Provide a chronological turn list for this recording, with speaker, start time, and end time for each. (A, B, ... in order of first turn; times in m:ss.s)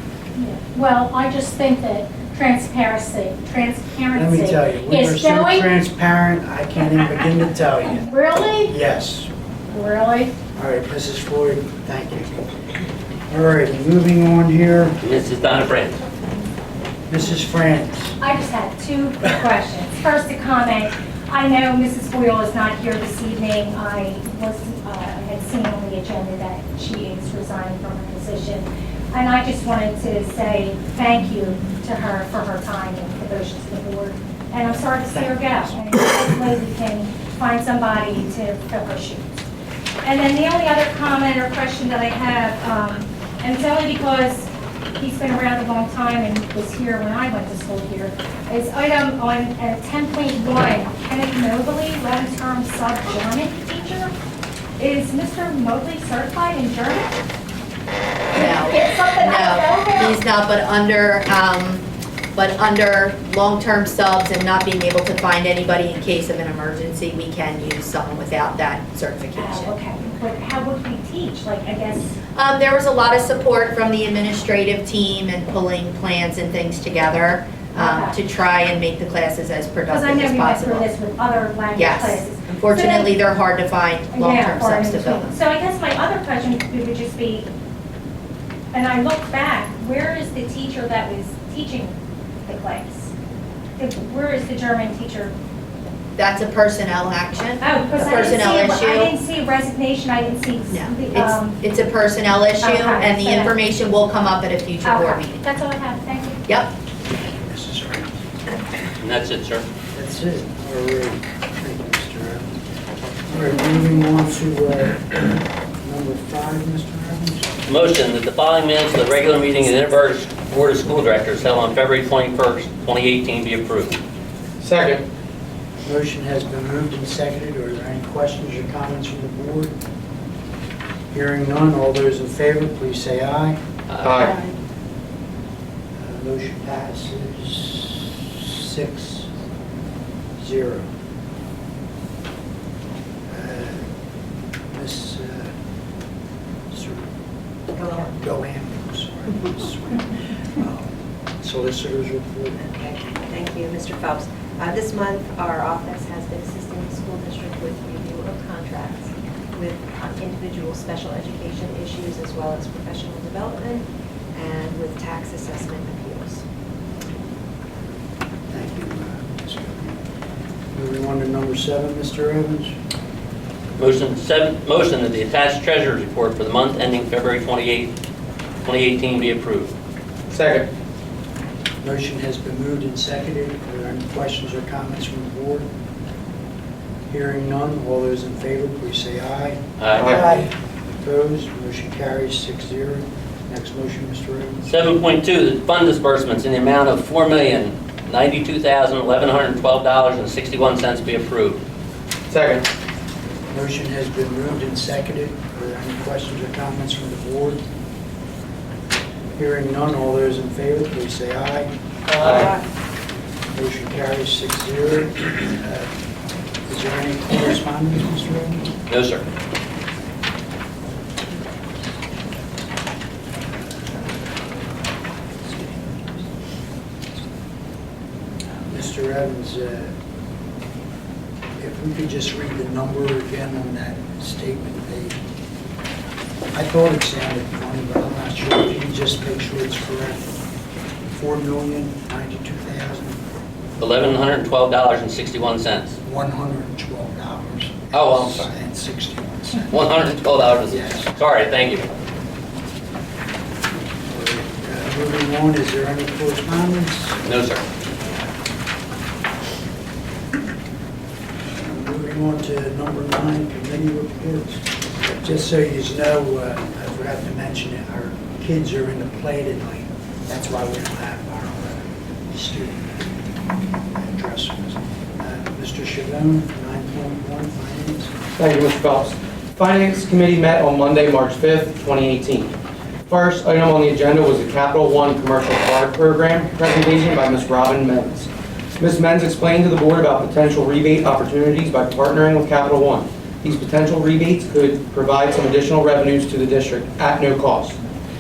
0:00.4-0:05.7 A
0:04.1-0:08.1 B
0:08.0-0:08.7 A
0:08.7-0:09.3 B
0:09.7-0:10.3 A
0:10.5-0:12.4 B
0:13.3-0:15.0 B
0:15.0-0:16.0 C
0:17.1-0:18.2 B
0:18.2-0:39.3 A
0:35.0-0:35.8 B
0:40.0-0:54.1 A
0:54.8-0:57.2 A
0:58.4-1:00.2 A
0:58.4-1:09.8 D
1:09.4-1:12.2 A
1:12.4-1:20.9 D
1:17.8-1:18.2 A
1:19.9-1:23.2 A
1:21.8-1:25.4 D
1:24.1-1:27.5 A
1:28.7-1:33.1 A
1:33.8-1:35.4 A
1:36.2-1:39.1 D
1:37.6-1:41.6 A
1:40.7-1:45.4 D
1:42.6-1:43.5 A
1:44.8-1:46.4 A
1:46.5-1:46.7 D
1:47.1-1:48.2 B
1:49.0-1:49.7 C
1:49.9-1:52.6 B
1:53.3-1:57.5 B
1:57.7-2:04.0 C
2:04.6-2:05.0 E
2:05.8-2:09.7 B
2:11.1-2:13.6 B
2:13.9-2:14.4 C
2:14.0-2:14.4 E
2:16.0-2:19.3 B
2:20.4-2:20.9 B
2:23.3-2:23.8 B
2:24.7-2:25.5 B
2:26.7-2:27.1 B
2:27.8-2:28.1 F
2:27.9-2:32.6 B
2:32.6-2:46.4 F
2:48.5-2:50.0 B
2:50.7-2:52.8 B
2:53.8-2:57.9 C
2:58.6-2:59.7 C
3:00.3-3:00.7 E
3:01.8-3:05.7 B
3:07.1-3:09.6 B
3:09.8-3:10.1 C
3:10.0-3:10.4 E
3:10.1-3:10.4 B
3:11.0-3:14.7 B
3:14.7-3:21.6 C
3:22.3-3:22.7 E
3:23.5-3:27.6 B
3:29.4-3:31.7 B
3:32.1-3:32.5 E
3:33.5-3:35.9 B
3:36.7-3:38.7 B
3:38.9-3:39.2 C
3:43.5-3:44.4 B
3:45.4-3:46.3 B
3:48.7-3:49.9 B
3:51.6-3:55.2 B
3:56.5-4:00.3 B
4:01.1-4:03.2 B
4:03.8-4:06.0 C
4:06.0-4:10.1 B
4:07.9-4:08.5 C
4:09.7-4:11.9 C
4:10.7-4:11.1 B
4:14.1-4:17.2 B
4:17.2-4:17.6 C
4:21.6-4:33.0 B
4:34.0-4:38.1 B
4:38.4-4:42.5 E
4:43.1-4:57.8 E